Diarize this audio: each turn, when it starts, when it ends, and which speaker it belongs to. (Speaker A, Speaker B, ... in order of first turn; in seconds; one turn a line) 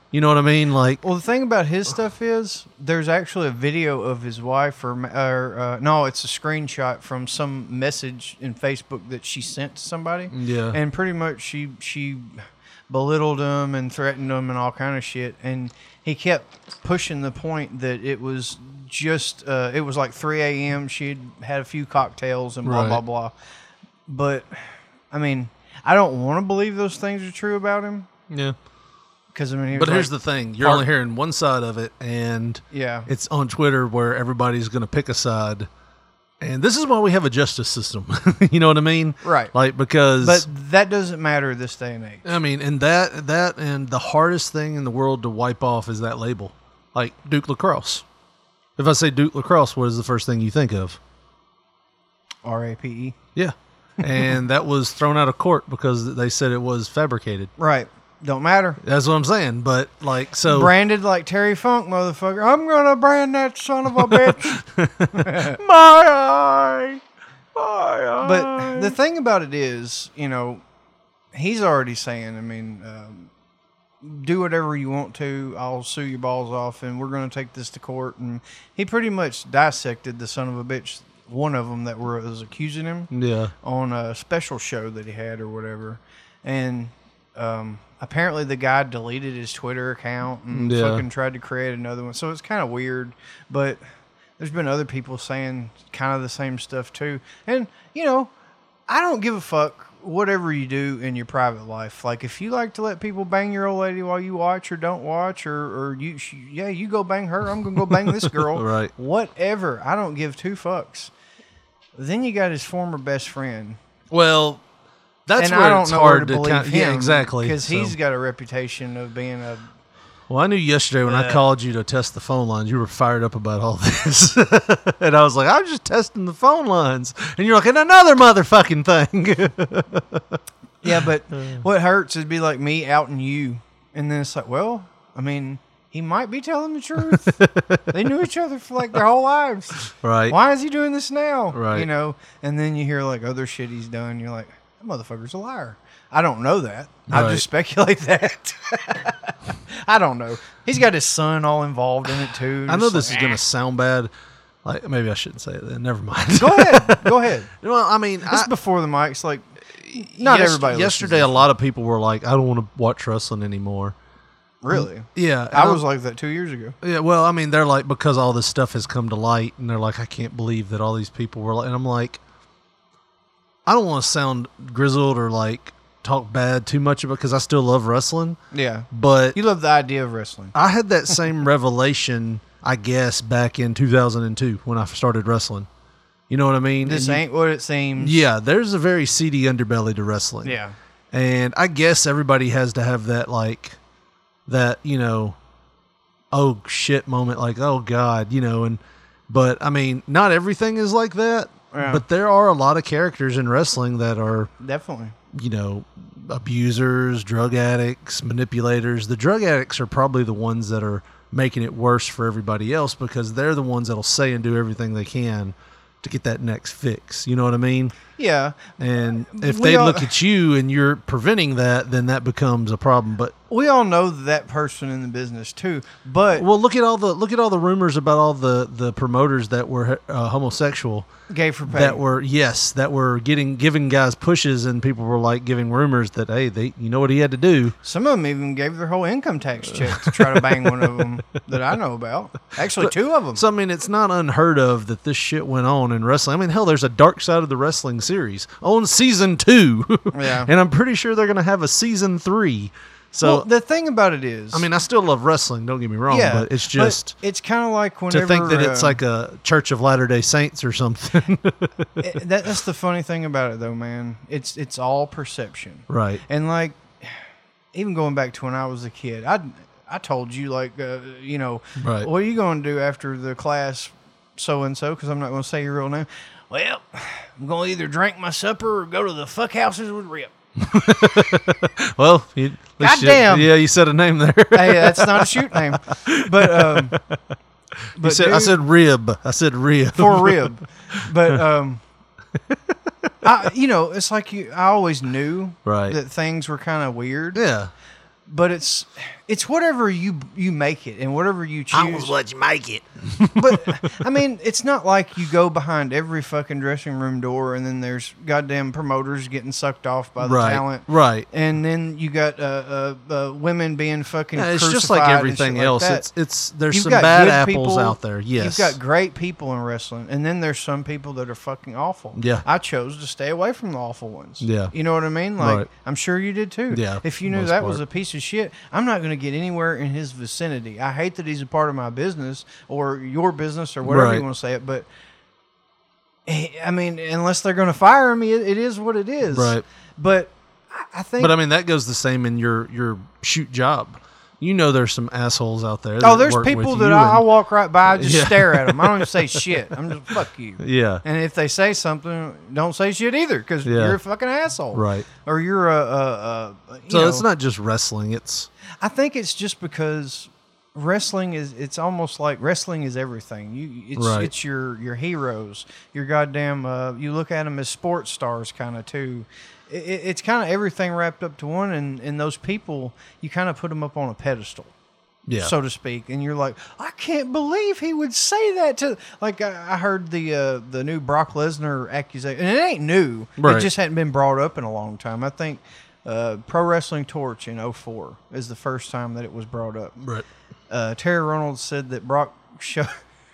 Speaker A: 0.1-1.0
Speaker B: 1.0-23.4
Speaker A: 10.3-10.8
Speaker A: 22.6-23.0
Speaker B: 24.1-28.1
Speaker A: 28.3-28.6
Speaker B: 29.3-30.9
Speaker A: 29.7-35.7
Speaker B: 32.7-33.1
Speaker A: 36.4-40.5
Speaker B: 39.2-39.5
Speaker B: 40.2-42.3
Speaker A: 42.2-48.0
Speaker A: 48.8-51.0
Speaker B: 52.4-53.2
Speaker A: 53.4-57.5
Speaker B: 54.0-54.3
Speaker B: 57.6-58.8
Speaker A: 58.8-60.7
Speaker B: 60.5-65.6
Speaker A: 64.1-67.0
Speaker A: 67.5-69.0
Speaker B: 68.2-70.6
Speaker B: 71.3-73.3
Speaker B: 74.0-93.8
Speaker A: 83.1-83.5
Speaker A: 90.5-91.0
Speaker B: 94.4-98.3
Speaker B: 98.9-111.1
Speaker A: 108.0-108.9
Speaker B: 112.0-113.8
Speaker A: 114.1-114.6
Speaker A: 115.3-118.0
Speaker B: 115.4-119.7
Speaker A: 120.3-130.4
Speaker B: 121.1-121.4
Speaker B: 130.8-153.4
Speaker A: 131.3-131.6
Speaker A: 137.2-137.9
Speaker A: 139.9-140.4
Speaker A: 141.5-141.9
Speaker A: 147.1-147.4
Speaker A: 152.7-154.1
Speaker A: 154.6-158.5
Speaker B: 156.3-157.5
Speaker B: 158.3-161.5
Speaker A: 159.8-163.9
Speaker B: 164.6-166.8
Speaker A: 164.7-165.8
Speaker A: 166.8-172.2
Speaker A: 173.7-178.4
Speaker B: 178.5-180.6
Speaker A: 178.9-179.4
Speaker A: 180.6-185.7
Speaker A: 186.3-187.2
Speaker B: 186.8-188.2
Speaker A: 188.0-190.6
Speaker B: 190.4-190.8
Speaker A: 191.1-193.8
Speaker A: 194.5-195.4
Speaker A: 196.3-204.5
Speaker B: 201.7-202.1
Speaker B: 204.6-205.2
Speaker A: 205.3-218.0
Speaker B: 218.2-220.1
Speaker A: 218.8-223.3
Speaker B: 223.5-226.5
Speaker A: 226.4-231.1
Speaker B: 231.3-232.0
Speaker A: 231.7-237.8
Speaker B: 237.8-243.4
Speaker A: 239.8-240.7
Speaker A: 242.8-253.5
Speaker B: 250.1-250.5
Speaker B: 253.2-254.7
Speaker A: 254.5-257.1
Speaker B: 256.1-259.0
Speaker A: 258.1-261.9
Speaker B: 262.0-267.2
Speaker A: 265.9-266.2
Speaker B: 267.7-280.3
Speaker A: 271.8-272.1
Speaker A: 280.6-287.2
Speaker B: 282.8-283.5
Speaker B: 284.5-287.0
Speaker A: 287.9-291.0
Speaker B: 288.0-288.6
Speaker B: 289.9-291.8
Speaker A: 292.5-293.1
Speaker B: 293.2-297.4
Speaker A: 295.6-296.0
Speaker A: 297.4-297.7
Speaker B: 298.3-302.1
Speaker A: 301.7-303.9
Speaker B: 303.4-316.1
Speaker A: 310.2-311.3
Speaker A: 314.4-318.8
Speaker B: 316.7-334.9
Speaker A: 322.1-322.5
Speaker A: 324.4-324.7
Speaker A: 325.4-325.7
Speaker A: 326.7-327.8
Speaker A: 333.9-334.2
Speaker B: 336.3-341.4
Speaker A: 339.3-339.6
Speaker A: 341.2-347.3
Speaker B: 346.0-357.3
Speaker A: 347.9-349.4
Speaker A: 350.6-351.0
Speaker A: 353.6-354.0
Speaker A: 354.7-355.1
Speaker A: 356.9-358.5
Speaker B: 358.8-374.7
Speaker A: 364.0-364.3
Speaker A: 375.3-375.5
Speaker B: 375.4-390.0
Speaker A: 383.4-383.7
Speaker A: 390.0-390.3
Speaker B: 390.7-392.9